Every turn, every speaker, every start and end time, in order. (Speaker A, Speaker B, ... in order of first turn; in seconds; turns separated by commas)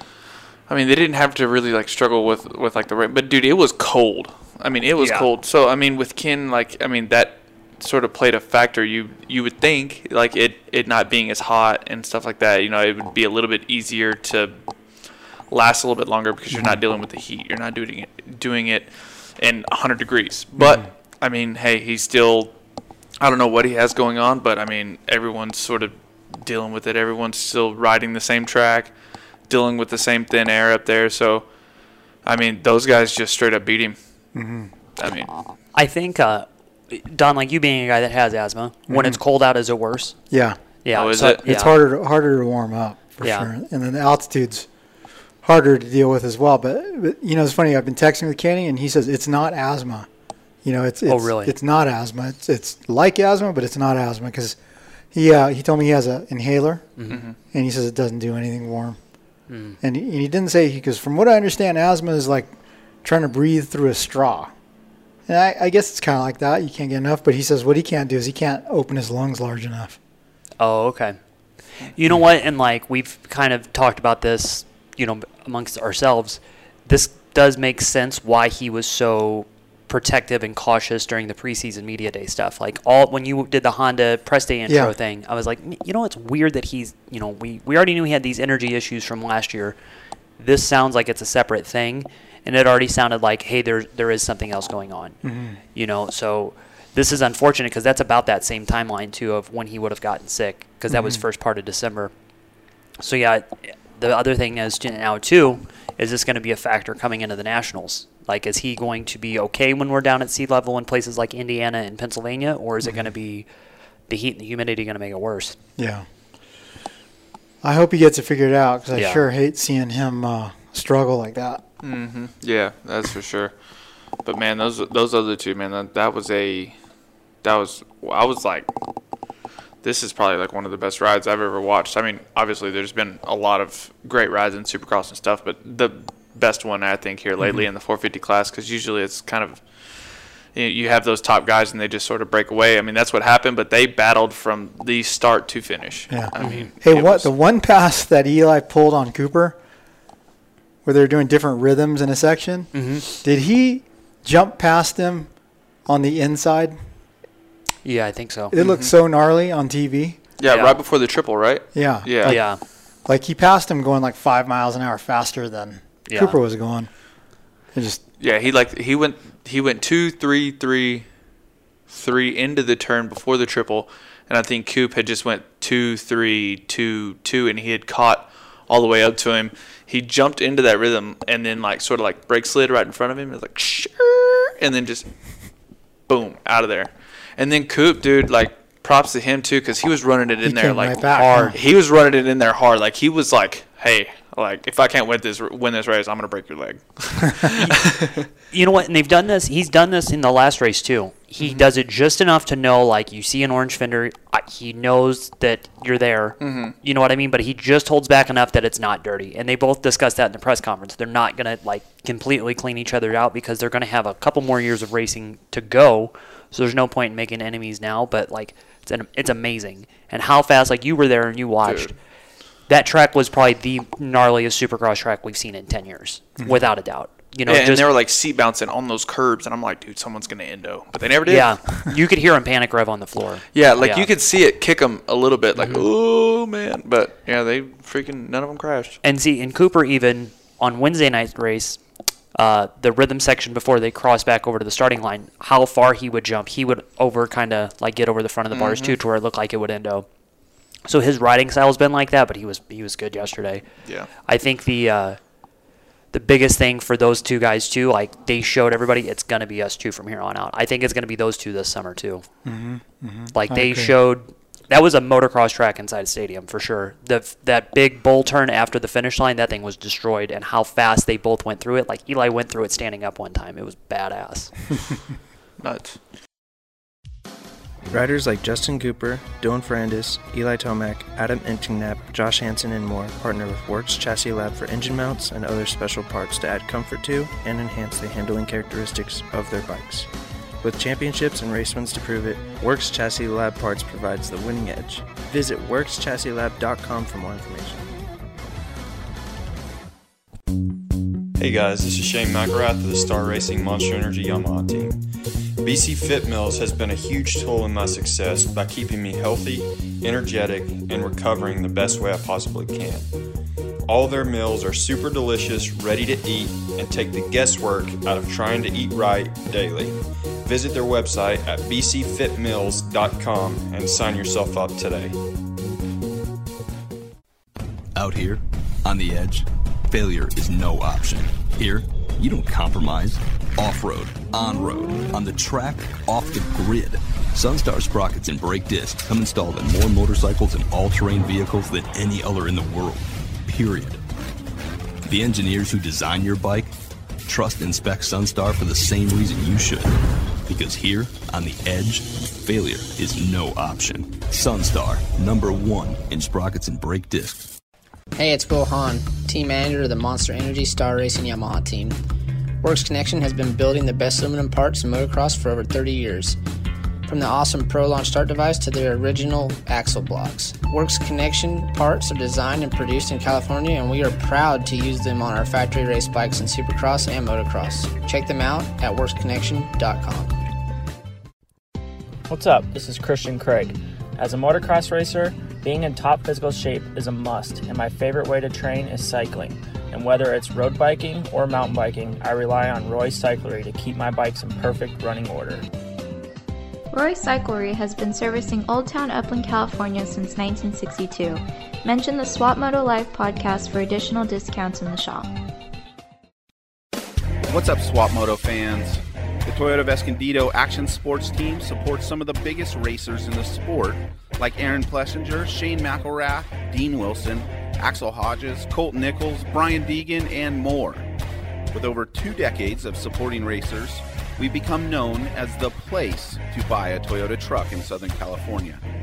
Speaker A: 0.7-14.6, Speaker B: 5.0-5.3, Speaker A: 15.5-22.5, Speaker C: 16.5-16.8, Speaker C: 20.6-20.8, Speaker A: 23.2-28.9, Speaker A: 29.5-31.5, Speaker A: 32.2-34.0, Speaker C: 34.3-34.7, Speaker A: 35.0-35.3, Speaker B: 35.7-40.1, Speaker C: 38.9-39.2, Speaker C: 40.3-40.6, Speaker B: 40.8-41.7, Speaker A: 40.9-41.4, Speaker C: 41.2-44.7, Speaker B: 43.2-43.5, Speaker C: 45.4-50.1, Speaker C: 50.6-54.6, Speaker B: 51.0-51.5, Speaker C: 55.1-59.0, Speaker B: 57.0-57.2, Speaker A: 57.1-57.3, Speaker B: 59.5-59.8, Speaker C: 59.8-64.5, Speaker C: 65.3-70.0, Speaker B: 70.6-71.2, Speaker B: 71.8-89.8, Speaker C: 84.7-84.9, Speaker B: 90.4-95.2, Speaker C: 95.2-95.6, Speaker B: 95.7-102.1, Speaker C: 100.9-101.2, Speaker B: 103.0-113.5, Speaker B: 114.1-115.6, Speaker C: 115.8-116.1, Speaker C: 117.6-121.6, Speaker B: 118.9-119.2, Speaker A: 121.8-123.5, Speaker A: 124.2-126.8, Speaker A: 127.4-128.7, Speaker A: 129.8-147.3, Speaker C: 146.1-149.6, Speaker B: 146.4-146.7, Speaker C: 150.8-155.3, Speaker B: 152.7-153.1, Speaker C: 155.8-156.8, Speaker B: 157.8-158.5, Speaker C: 158.5-160.2, Speaker A: 158.5-158.9, Speaker A: 160.4-162.4, Speaker B: 160.4-160.8, Speaker C: 161.7-166.9, Speaker B: 162.2-162.6, Speaker B: 166.1-166.4, Speaker C: 167.7-168.0, Speaker A: 168.2-171.1, Speaker A: 171.9-185.1, Speaker A: 186.1-198.2, Speaker C: 190.4-191.6, Speaker B: 191.2-191.5, Speaker B: 197.6-221.9, Speaker A: 206.4-206.7, Speaker A: 221.6-221.9, Speaker B: 222.7-227.8, Speaker A: 227.4-231.6, Speaker B: 231.2-234.1, Speaker A: 233.5-239.0, Speaker B: 235.6-235.8, Speaker B: 239.0-241.8, Speaker B: 242.3-250.1, Speaker A: 248.5-248.9, Speaker B: 250.9-253.6, Speaker B: 254.3-255.2, Speaker B: 256.1-262.2, Speaker C: 262.4-263.9, Speaker B: 263.3-274.6, Speaker A: 275.6-276.0, Speaker D: 277.9-290.1, Speaker D: 290.6-298.0, Speaker E: 301.4-305.0, Speaker E: 305.6-313.1, Speaker E: 313.9-325.2, Speaker F: 327.9-344.0, Speaker F: 345.1-346.7, Speaker F: 347.2-357.5, Speaker G: 358.1-362.0, Speaker G: 362.6-366.4, Speaker G: 367.1-380.3, Speaker H: 382.3-395.7, Speaker I: 396.9-405.3, Speaker J: 407.4-421.1, Speaker J: 421.7-428.8